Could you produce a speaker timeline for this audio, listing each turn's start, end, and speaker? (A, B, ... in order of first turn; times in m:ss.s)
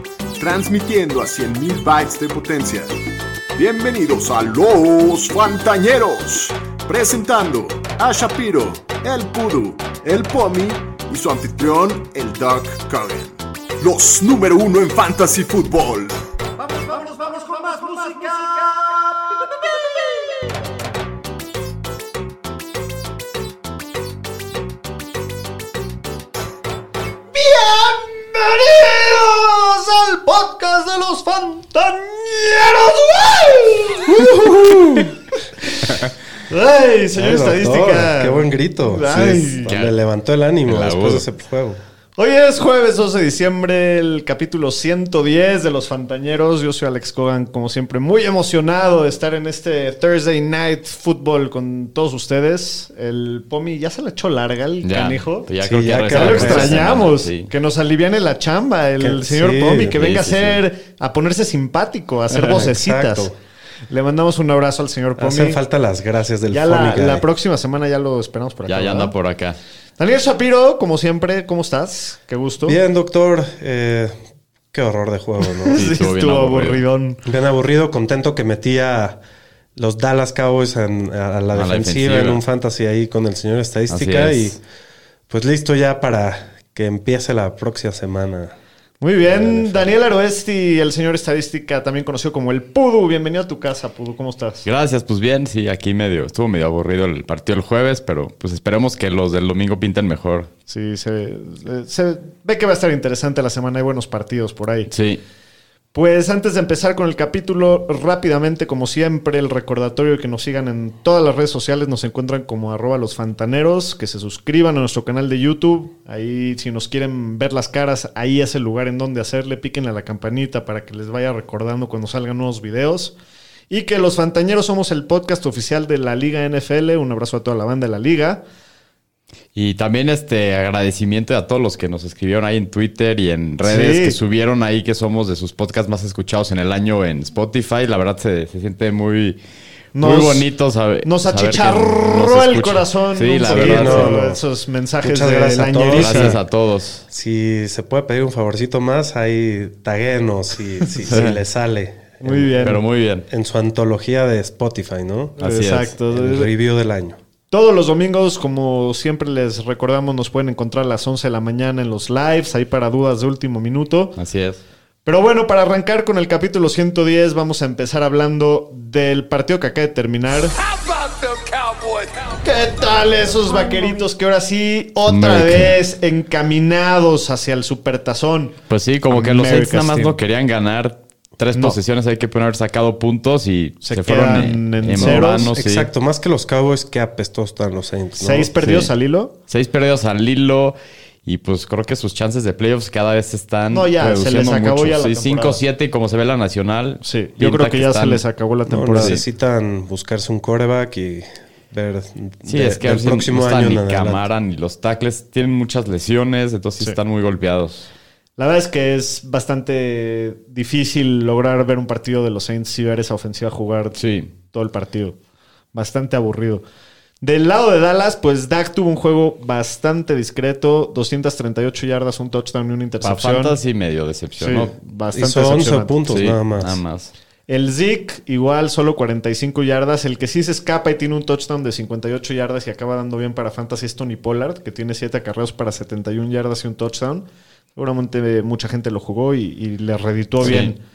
0:00.4-0:02.9 A
0:03.5-0:16.2 A
0:17.2-0:18.7 B
0:27.3-0:39.7 B
0:34.6-0:35.0 C
0:37.1-0:41.8 C
0:39.7-0:40.0 D
0:40.6-0:41.2 D
0:42.2-0:55.5 B
0:54.8-0:57.5 D
0:55.6-0:57.0 C
0:56.1-1:03.3 B
0:59.0-1:00.1 C
1:00.0-1:00.6 D
1:02.4-1:03.3 C
1:03.9-1:05.6 B
1:05.2-1:07.2 C
1:06.5-1:09.1 B
1:08.7-1:09.6 D
1:10.0-1:12.8 B
1:12.6-1:14.1 C
1:14.7-1:15.8 C
1:15.6-1:17.2 B
1:15.7-1:16.8 D
1:17.2-1:19.2 C
1:19.8-1:24.6 C
1:21.5-1:22.4 D
1:23.9-1:24.6 D
1:25.3-1:28.6 C
1:29.0-1:34.6 B
1:29.2-1:29.9 C
1:34.6-1:40.5 D
1:40.7-1:44.9 B
1:44.9-1:45.2 D
1:45.9-2:03.2 B
2:03.7-2:08.4 B
2:09.5-2:19.4 D
2:13.6-2:14.2 B
2:19.9-2:20.4 B
2:20.0-2:24.2 D
2:21.0-2:26.4 B
2:23.4-2:24.4 C
2:25.0-2:26.4 C
2:26.0-2:27.0 D
2:27.1-2:32.7 C
2:31.0-2:31.4 D
2:32.2-2:32.8 B
2:32.6-2:33.2 D
2:33.3-2:35.4 C
2:35.4-2:36.5 B
2:35.4-2:35.9 D
2:36.1-2:37.2 C
2:37.5-2:44.1 B
2:44.2-2:44.6 D
2:45.0-2:50.6 B
2:51.2-2:51.9 D
2:52.4-2:58.6 B
2:55.1-2:55.7 D
2:58.7-3:05.9 D
2:59.1-3:00.1 B
3:03.8-3:05.5 B
3:05.0-3:08.5 C
3:08.2-3:09.3 B
3:08.6-3:08.9 D
3:09.5-3:18.2 D
3:13.7-3:15.6 B
3:17.0-3:19.2 B
3:18.7-3:24.3 C
3:18.9-3:19.2 D
3:22.4-3:27.9 D
3:28.4-3:34.0 B
3:34.0-3:34.3 D
3:34.5-3:35.2 B
3:35.7-3:36.6 B
3:37.2-3:43.6 B
3:43.0-3:44.7 D
3:44.4-3:46.0 B
3:45.1-3:46.8 C
3:46.1-3:47.1 D
3:47.5-4:00.8 B
4:00.4-4:00.7 D